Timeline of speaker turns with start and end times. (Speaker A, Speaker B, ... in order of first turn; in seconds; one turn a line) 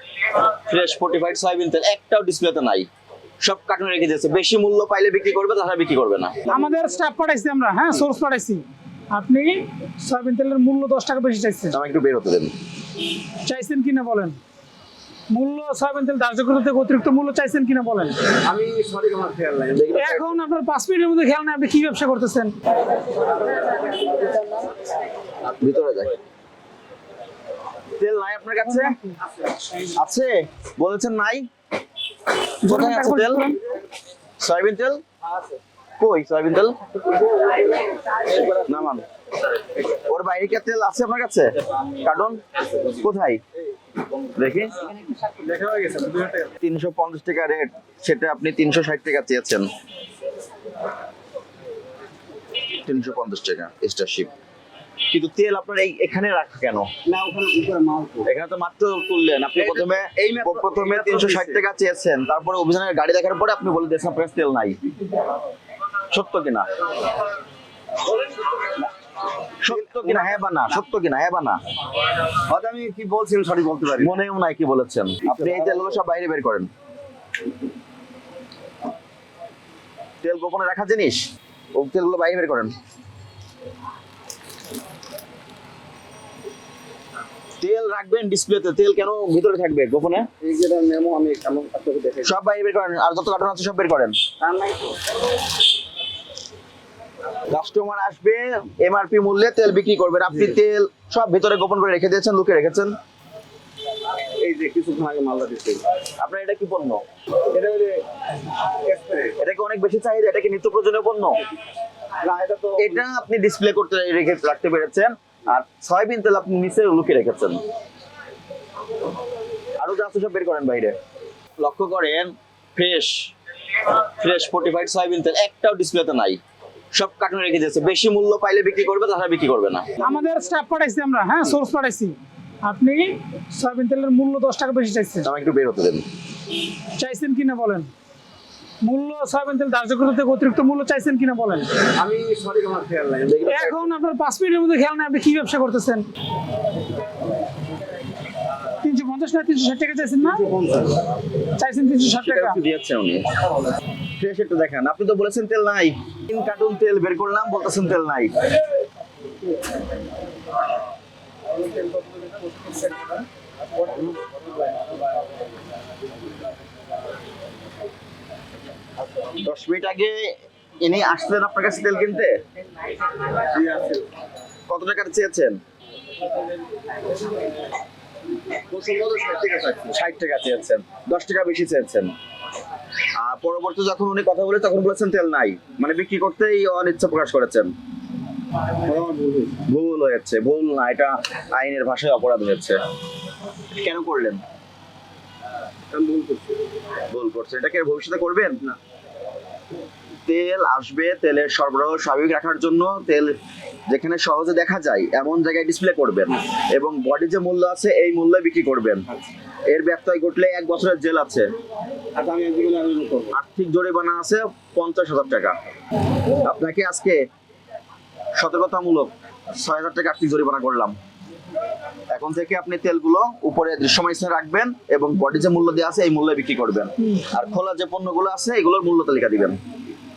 Speaker A: 0.3-2.9
Speaker A: 3.4-6.5
Speaker B: 6.5-11.8
Speaker A: 11.7-12.5
Speaker B: 13.4-14.4
Speaker B: 15.3-18.3
Speaker C: 18.4-20.0
Speaker A: 19.7-20.3
Speaker B: 19.9-22.5
Speaker A: 25.6-26.1
Speaker A: 28.0-28.9
Speaker B: 28.7-29.1
Speaker A: 29.9-31.4
Speaker A: 32.6-33.5
Speaker B: 32.6-33.5
Speaker A: 34.4-35.0
Speaker A: 36.0-36.7
Speaker C: 38.2-38.6
Speaker A: 38.6-39.0
Speaker A: 40.0-43.4
Speaker A: 44.4-44.7
Speaker C: 45.3-46.5
Speaker A: 46.6-49.7
Speaker A: 52.8-54.3
Speaker A: 55.1-56.9
Speaker C: 57.0-58.3
Speaker A: 58.2-64.8
Speaker C: 59.6-61.6
Speaker A: 66.1-66.7
Speaker A: 69.6-71.6
Speaker C: 69.7-70.7
Speaker C: 72.5-74.1
Speaker A: 74.0-76.7
Speaker C: 75.3-75.8
Speaker A: 80.2-81.2
Speaker A: 81.7-82.7
Speaker A: 87.6-90.3
Speaker C: 90.4-92.3
Speaker A: 92.2-94.2
Speaker C: 94.4-95.0
Speaker A: 97.5-102.9
Speaker C: 104.2-105.8
Speaker A: 106.2-107.0
Speaker C: 107.5-108.0
Speaker C: 108.8-109.4
Speaker A: 109.4-111.4
Speaker C: 112.2-113.0
Speaker A: 112.8-117.6
Speaker A: 119.8-120.9
Speaker A: 121.6-123.1
Speaker A: 123.8-126.4
Speaker A: 126.9-129.9
Speaker B: 130.0-135.3
Speaker A: 135.2-136.0
Speaker B: 137.0-137.9
Speaker B: 138.8-141.8
Speaker C: 141.9-143.6
Speaker A: 143.3-143.8
Speaker B: 143.4-146.0
Speaker B: 148.8-150.4
Speaker C: 150.2-151.0
Speaker B: 151.6-152.6
Speaker A: 152.1-153.2
Speaker A: 154.2-158.3
Speaker C: 161.9-162.8
Speaker C: 163.8-164.2
Speaker A: 169.4-172.4
Speaker C: 173.4-174.0
Speaker A: 174.7-175.6
Speaker C: 178.7-179.9
Speaker A: 179.9-182.1
Speaker A: 183.2-187.7
Speaker C: 188.8-189.6
Speaker A: 189.7-192.8
Speaker A: 193.8-194.4
Speaker C: 195.9-196.6
Speaker A: 197.1-198.6
Speaker A: 200.2-203.3
Speaker A: 203.9-209.0
Speaker A: 209.7-211.4
Speaker C: 212.1-213.3
Speaker A: 213.3-215.5
Speaker A: 216.4-217.2
Speaker A: 218.4-220.9
Speaker A: 222.1-229.6